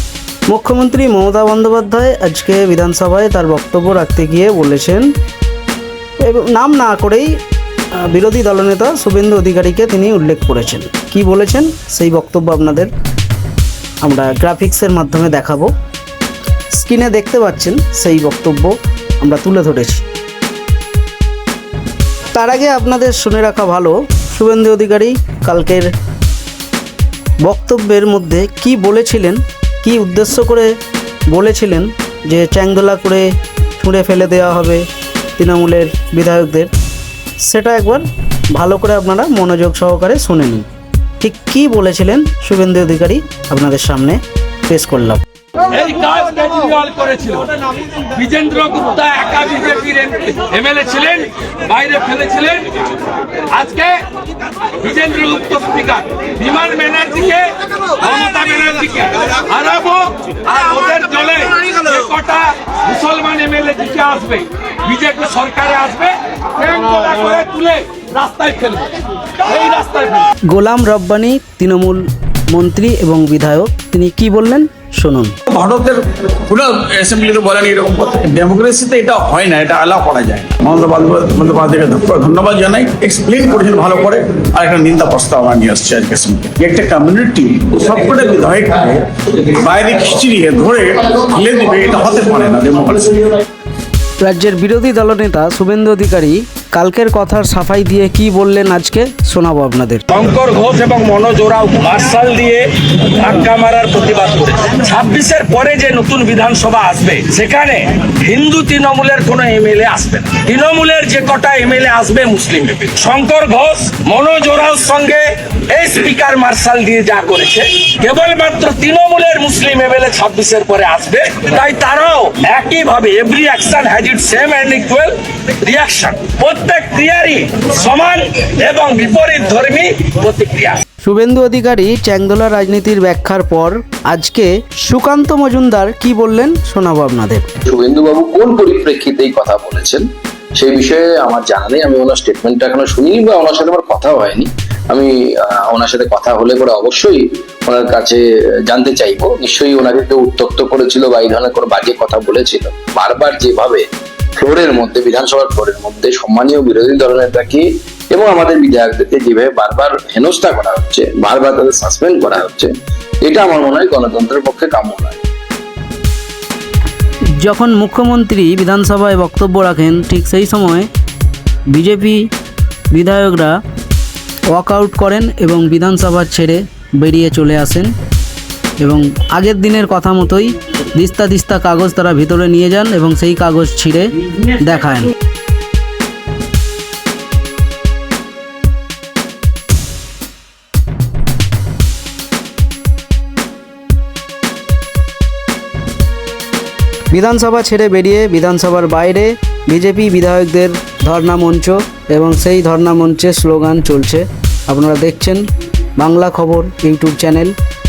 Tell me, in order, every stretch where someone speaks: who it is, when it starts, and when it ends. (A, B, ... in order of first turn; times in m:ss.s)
0:00.5-0:05.1 A
0:06.2-0:07.3 A
0:08.0-0:12.9 A
0:14.0-0:15.7 A
0:16.7-0:20.0 A
0:22.3-0:25.9 A
0:27.4-0:30.7 A
0:31.3-0:33.3 A
0:33.8-0:34.8 A
0:35.4-0:36.7 A
0:37.4-0:40.7 A
0:41.2-0:45.2 A
0:45.7-0:54.1 B
0:54.6-1:10.3 B
1:10.5-1:15.4 A
1:15.5-1:33.4 C
1:34.2-1:40.0 A
1:40.1-2:10.8 B
2:11.0-2:17.5 A
2:17.6-2:33.8 D
2:34.4-2:42.7 D
2:43.2-2:45.2 D
2:47.4-2:50.9 A
2:51.7-2:52.3 A
2:52.9-2:53.6 A
2:54.5-2:57.9 A
2:58.8-3:05.1 A
3:17.1-3:25.4 A
3:26.0-3:27.6 A